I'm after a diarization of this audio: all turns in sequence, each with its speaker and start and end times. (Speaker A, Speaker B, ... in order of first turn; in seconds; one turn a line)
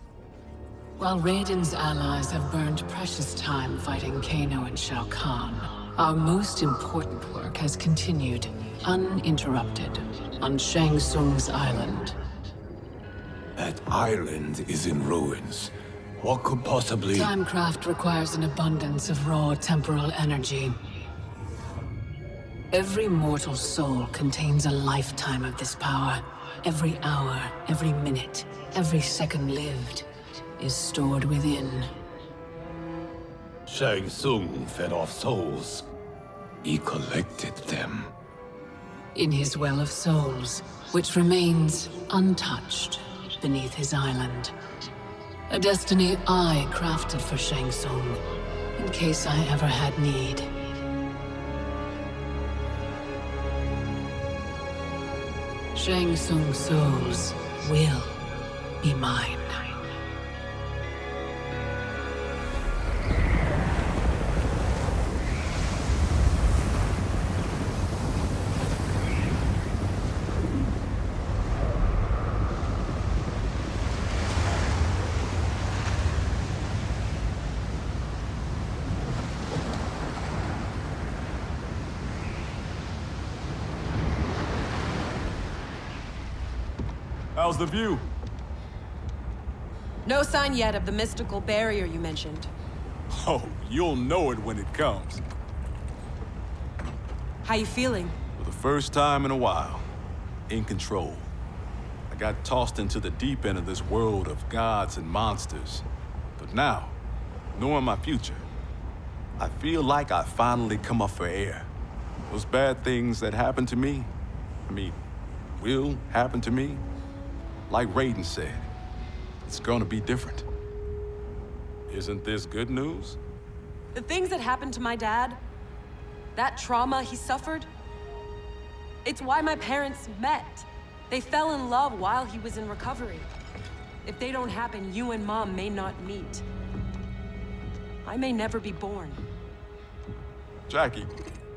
Speaker A: 1.0-12.2
Speaker B: 13.6-17.3
Speaker A: 17.1-20.8
Speaker A: 22.7-30.1
Speaker A: 30.6-31.9
Speaker B: 33.7-35.9
Speaker B: 36.6-38.1
Speaker A: 39.1-44.5
Speaker A: 45.5-48.2
Speaker A: 48.8-50.5
Speaker A: 55.7-58.2
Speaker A: 58.8-59.6
Speaker C: 87.3-88.0
Speaker D: 90.0-92.5
Speaker C: 93.1-95.2
Speaker D: 97.4-98.2
Speaker C: 98.4-99.8
Speaker C: 100.5-101.3
Speaker C: 102.1-105.8
Speaker C: 106.4-107.0
Speaker C: 107.5-108.5
Speaker C: 109.4-111.7
Speaker C: 112.3-114.1
Speaker C: 114.7-115.0
Speaker C: 115.6-116.8
Speaker C: 117.7-118.7
Speaker C: 119.4-120.4
Speaker C: 121.9-123.2
Speaker D: 123.9-125.4
Speaker D: 126.3-127.7
Speaker D: 129.0-133.3
Speaker D: 134.0-136.4
Speaker D: 138.0-139.2
Speaker C: 140.7-141.1